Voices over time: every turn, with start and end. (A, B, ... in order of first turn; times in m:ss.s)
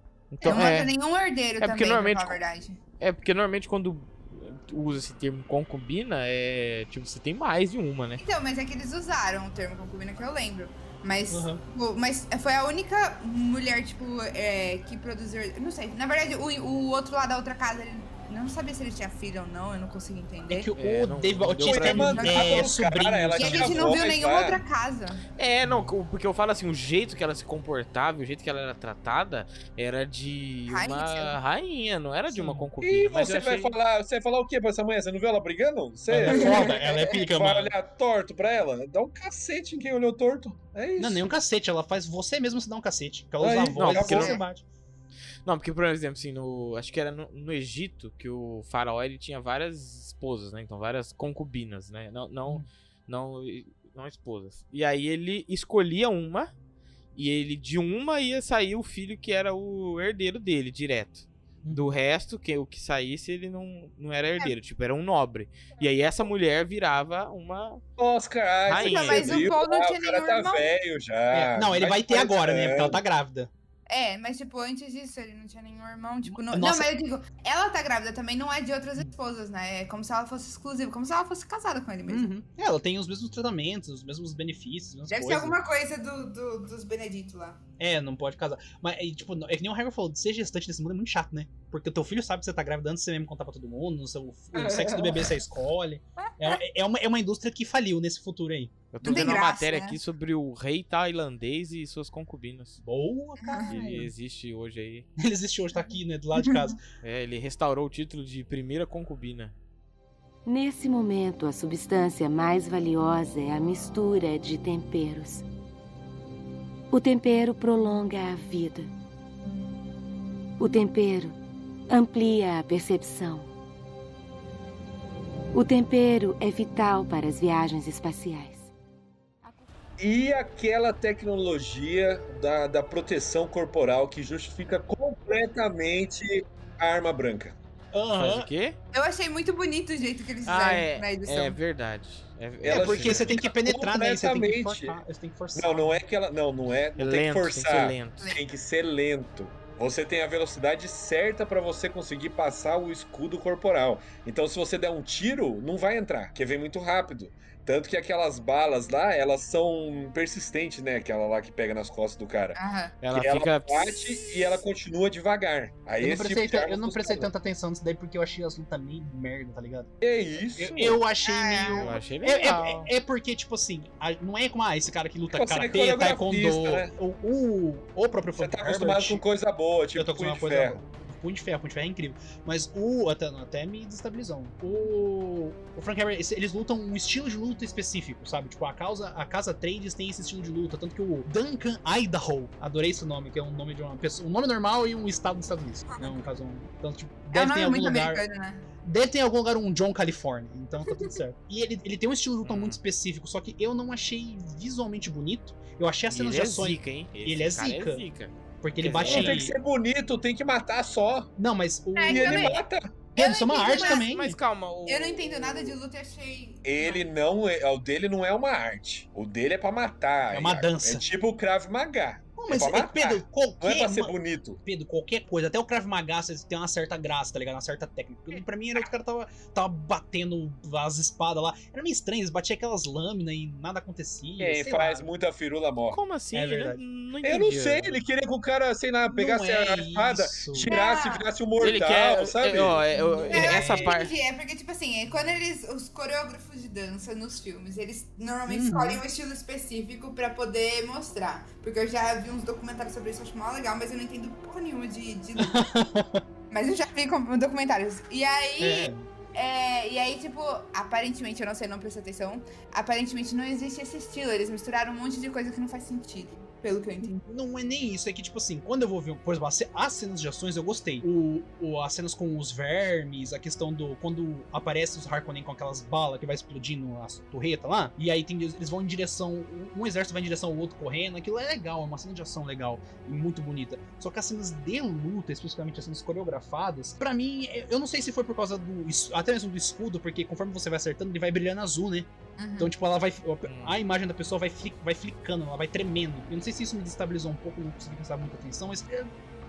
0:00.3-0:00.9 A
0:00.4-0:02.8 B
0:01.6-0:02.4 A
0:03.0-0:08.2 A
0:08.2-0:20.7 B
0:11.3-0:11.6 C
0:20.5-0:23.9 C
0:20.8-0:22.4 A
0:21.6-0:24.6 D
0:22.1-0:22.7 B
0:23.4-0:25.2 B
0:25.4-0:33.8 A
0:25.6-0:25.9 C
0:30.7-0:31.4 B
0:32.3-0:32.7 C
0:32.8-0:41.3 D
0:36.1-0:37.8 C
0:36.3-0:37.0 B
0:41.0-0:44.6 C
0:43.4-0:44.4 D
0:43.8-0:44.4 A
0:44.1-0:44.4 B
0:45.4-0:56.5 A
0:57.2-1:07.8 A
1:01.6-1:01.9 C
1:08.0-1:13.0 D
1:08.7-1:09.4 A
1:08.8-1:10.7 B
1:11.3-1:13.5 C
1:13.9-1:22.3 B
1:16.3-1:16.9 C
1:22.1-1:25.6 C
1:25.1-1:27.6 B
1:27.8-1:39.4 C
1:34.6-1:35.3 B
1:38.9-1:42.8 A
1:39.0-1:40.0 B
1:42.8-1:44.1 C
1:43.4-1:43.9 B
1:43.7-1:45.1 A
1:45.2-1:46.8 C
1:46.4-1:46.7 B
1:47.0-1:49.6 A
1:50.5-1:55.4 E
1:56.9-1:58.9 E
2:00.6-2:01.4 E
2:01.9-2:03.5 E
2:05.5-2:08.7 E
2:10.0-2:17.6 D
2:17.9-2:18.5 C
2:18.2-2:18.8 A
2:18.9-2:21.6 B
2:20.4-2:23.4 A
2:22.6-2:25.0 D
2:22.7-2:26.0 C
2:25.6-2:42.6 D
2:27.0-2:28.3 A
2:42.6-2:42.9 B
2:43.0-2:44.4 A
2:43.1-2:47.3 D
2:46.0-2:49.9 C
2:50.0-2:51.0 D
2:50.6-2:59.2 C
2:51.2-2:52.0 B
2:51.7-2:52.9 A
2:55.3-2:56.9 D
2:58.4-3:00.8 D
3:00.0-3:18.2 C
3:17.3-3:18.7 B
3:18.8-3:28.0 C
3:20.9-3:21.2 B
3:22.4-3:22.8 A
3:26.1-3:29.5 A
3:28.6-3:29.5 C
3:29.0-3:31.3 D
3:31.4-3:32.6 C
3:32.0-3:32.6 B
3:32.1-3:32.9 D
3:33.2-3:34.1 B
3:33.2-3:34.4 C
3:33.6-3:35.8 A
3:34.9-3:37.0 B
3:36.6-3:44.6 D
3:40.3-3:41.0 C
3:42.4-3:55.1 C
3:54.4-3:56.0 D
3:55.9-3:58.0 A
3:56.3-3:56.8 C
3:57.2-4:02.8 D
3:59.1-4:00.7 C
4:00.7-4:01.2 B
4:01.6-4:04.1 A
4:02.9-4:04.0 C
4:03.3-4:15.7 B
4:08.5-4:09.0 C
4:15.4-4:16.2 C
4:16.5-4:27.1 B
4:18.6-4:19.1 C
4:27.0-4:52.1 C
4:52.4-4:52.7 B
4:52.6-4:59.1 C
4:53.4-4:53.8 A